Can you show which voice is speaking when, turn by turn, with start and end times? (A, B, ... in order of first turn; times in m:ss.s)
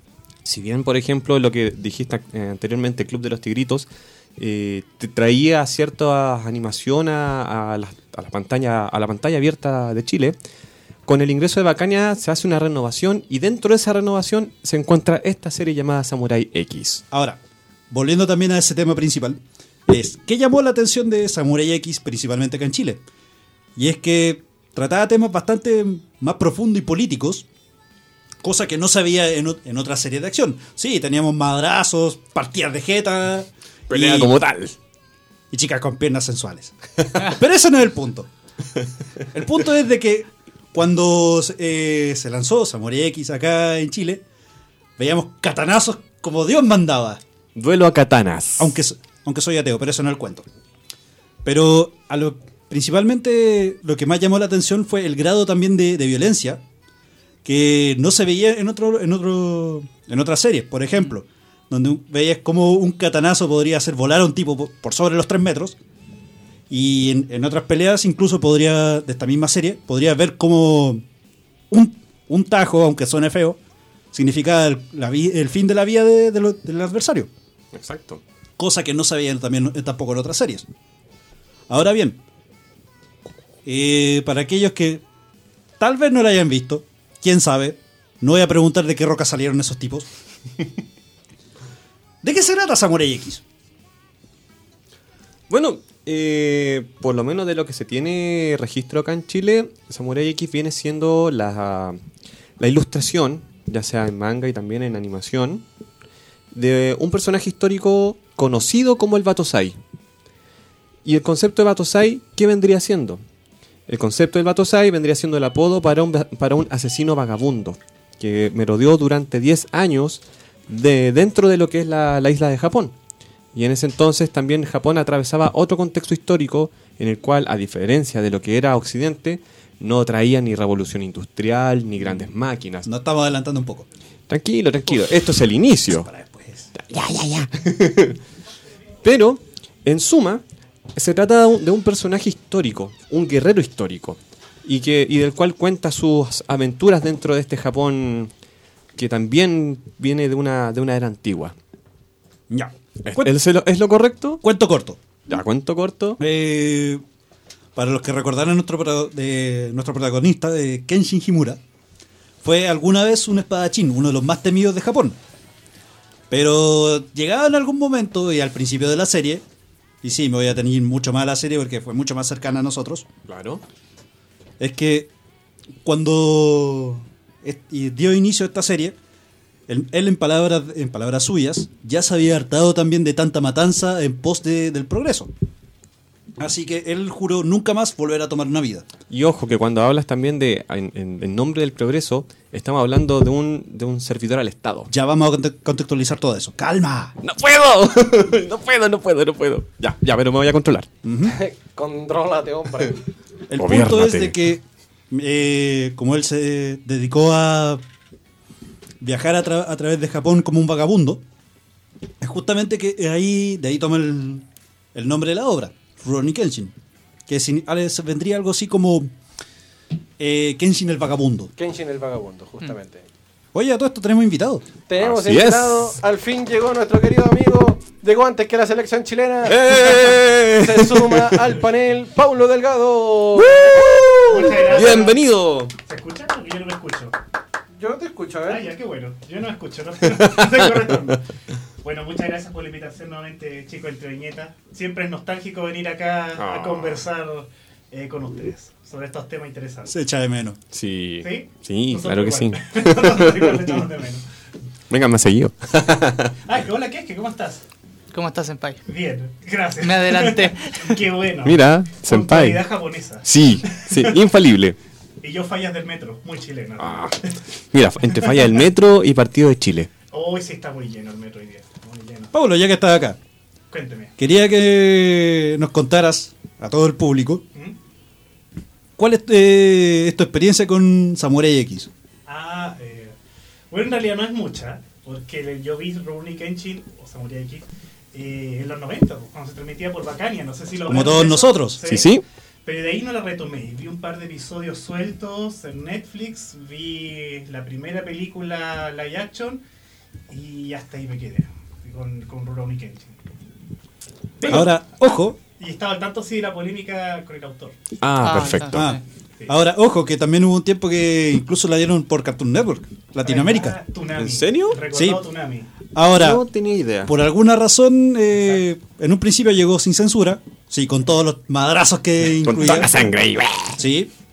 0:00.4-0:03.9 A
0:04.4-0:10.4 A
0:11.1-0:17.0 A
0:17.1-0:17.4 B
0:17.9-0:23.0 B
0:23.8-0:27.5 B
0:28.4-0:34.3 B
0:33.9-0:34.8 A
0:35.5-0:38.3 B
0:39.3-0:44.2 B
0:45.0-0:47.2 B
0:47.6-0:48.7 A
0:48.6-0:50.5 B
0:51.4-0:56.6 B
0:57.4-1:05.8 B
1:06.7-1:11.0 B
1:11.7-1:13.6 B
1:14.1-1:17.3 B
1:17.7-1:18.2 A
1:18.6-1:20.7 B
1:21.7-1:22.2 B
1:23.6-1:25.0 B
1:25.8-1:30.1 B
1:32.2-1:33.4 B
1:35.5-1:42.0 A
1:42.6-1:45.6 A
1:46.5-1:49.8 A
1:51.0-1:53.2 A
1:53.9-2:03.0 A
2:03.5-2:12.9 A
2:12.9-2:13.9 B
2:14.3-2:16.1 A
2:15.9-2:16.7 B
2:16.7-2:18.2 A
2:19.0-2:20.4 A
2:21.0-2:28.3 A
2:29.0-2:31.6 A
2:32.5-2:33.3 B
2:33.0-2:34.4 A
2:34.4-2:35.0 B
2:35.3-2:36.2 A
2:36.2-2:37.0 B
2:37.8-2:41.6 B
2:42.4-2:45.2 B
2:46.3-2:49.4 B
2:50.0-2:53.1 B
2:53.3-2:53.6 A
2:54.6-2:55.1 B
2:55.8-2:59.0 B
2:59.7-3:05.3 B
3:06.4-3:08.9 B
3:09.1-3:14.9 A
3:14.9-3:17.1 B
3:17.2-3:20.9 A
3:21.0-3:21.4 B
3:21.3-3:23.0 C
3:23.5-3:27.8 B
3:23.5-3:24.4 A
3:29.0-3:31.2 B
3:32.2-3:36.7 B
3:37.3-3:39.1 B
3:40.2-3:41.5 B
3:41.6-3:43.1 C
3:43.5-3:44.7 B
3:44.9-3:54.0 C
3:45.0-3:46.0 A
3:49.5-3:51.5 A
3:53.4-3:55.7 A
3:54.3-3:55.2 D
3:54.7-3:55.1 C
3:55.8-3:57.2 D
3:57.8-3:58.6 C
3:58.5-4:01.2 D
4:00.2-4:00.6 A
4:01.8-4:09.9 D
4:06.4-4:07.0 A
4:09.9-4:10.6 B
4:10.7-4:13.8 A
4:11.2-4:14.2 D
4:14.9-4:16.4 A
4:16.4-4:17.6 D
4:18.1-4:18.8 E
4:18.9-4:24.2 D
4:19.8-4:21.0 E
4:21.4-4:22.7 A
4:23.2-4:24.8 A
4:25.2-4:27.4 D
4:26.8-4:27.2 A
4:27.7-4:29.9 A
4:30.1-4:32.3 D
4:32.3-4:33.2 B
4:33.7-4:34.1 D
4:34.2-4:37.4 B
4:39.0-4:41.9 B
4:42.3-4:43.2 D
4:43.7-4:52.1 D
4:50.9-4:51.8 B
4:51.9-4:52.2 A
4:52.6-4:59.6 D
5:00.3-5:03.2 D
5:04.4-5:04.8 D
5:04.5-5:05.4 B
5:05.6-5:07.8 D
5:08.0-5:08.9 A
5:08.2-5:09.0 E
5:08.7-5:13.8 B
5:13.2-5:15.7 D
5:14.2-5:14.8 A
5:14.9-5:15.2 B
5:15.9-5:16.4 B
5:16.1-5:17.1 A
5:17.0-5:23.1 B
5:22.4-5:23.8 A
5:23.8-5:24.1 B